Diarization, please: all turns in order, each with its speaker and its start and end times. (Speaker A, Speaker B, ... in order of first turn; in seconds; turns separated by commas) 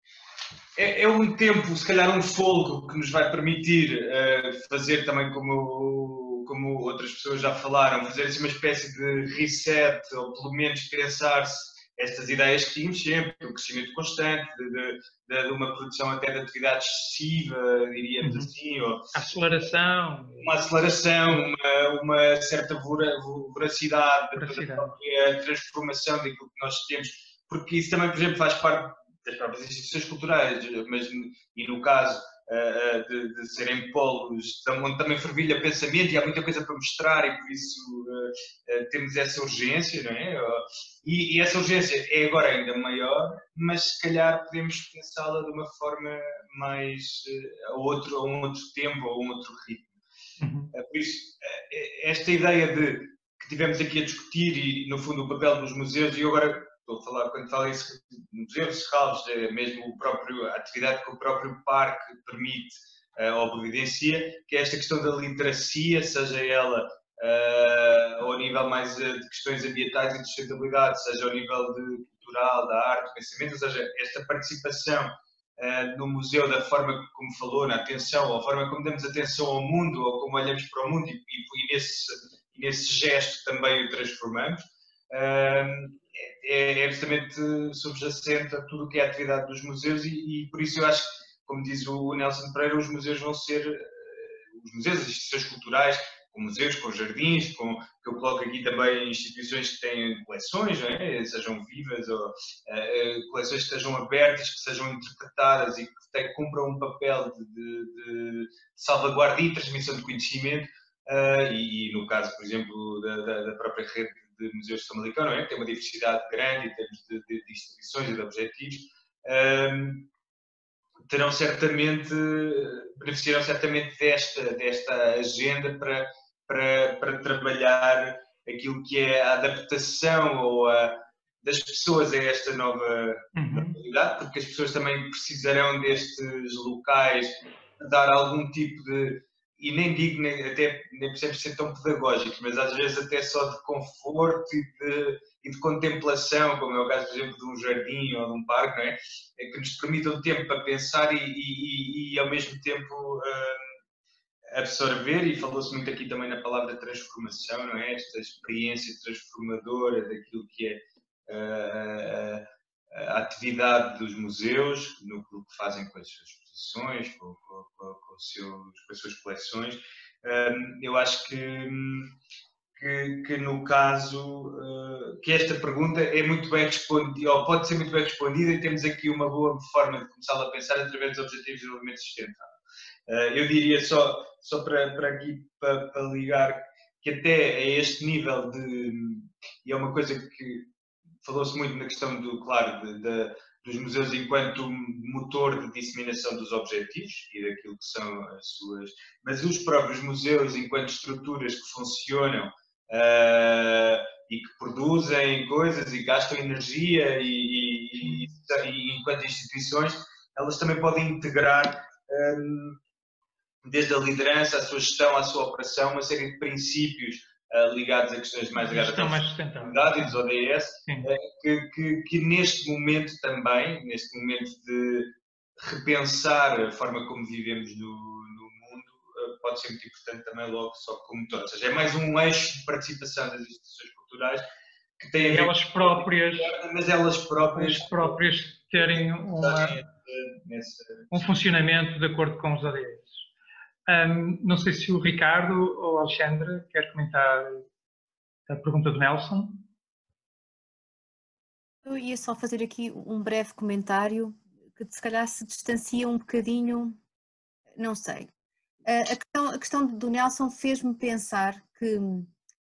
Speaker A: 0.8-19.1, Speaker B: 18.2-18.5, Speaker B: 19.1-20.5, Speaker A: 20.4-49.9, Speaker B: 24.4-24.9, Speaker B: 50.4-50.7, Speaker A: 50.7-120.1, Speaker A: 121.1-153.7, Speaker B: 133.3-133.8, Speaker A: 154.5-172.1, Speaker A: 172.7-182.5, Speaker A: 183.1-190.7, Speaker A: 191.2-212.8, Speaker B: 208.0-208.4, Speaker A: 213.6-234.4, Speaker B: 218.6-220.1, Speaker A: 235.0-241.2, Speaker B: 235.2-236.5, Speaker B: 237.5-239.8, Speaker B: 241.1-243.2, Speaker B: 243.9-247.6, Speaker B: 248.5-249.7, Speaker C: 251.8-257.0, Speaker C: 257.8-258.3, Speaker C: 258.9-262.3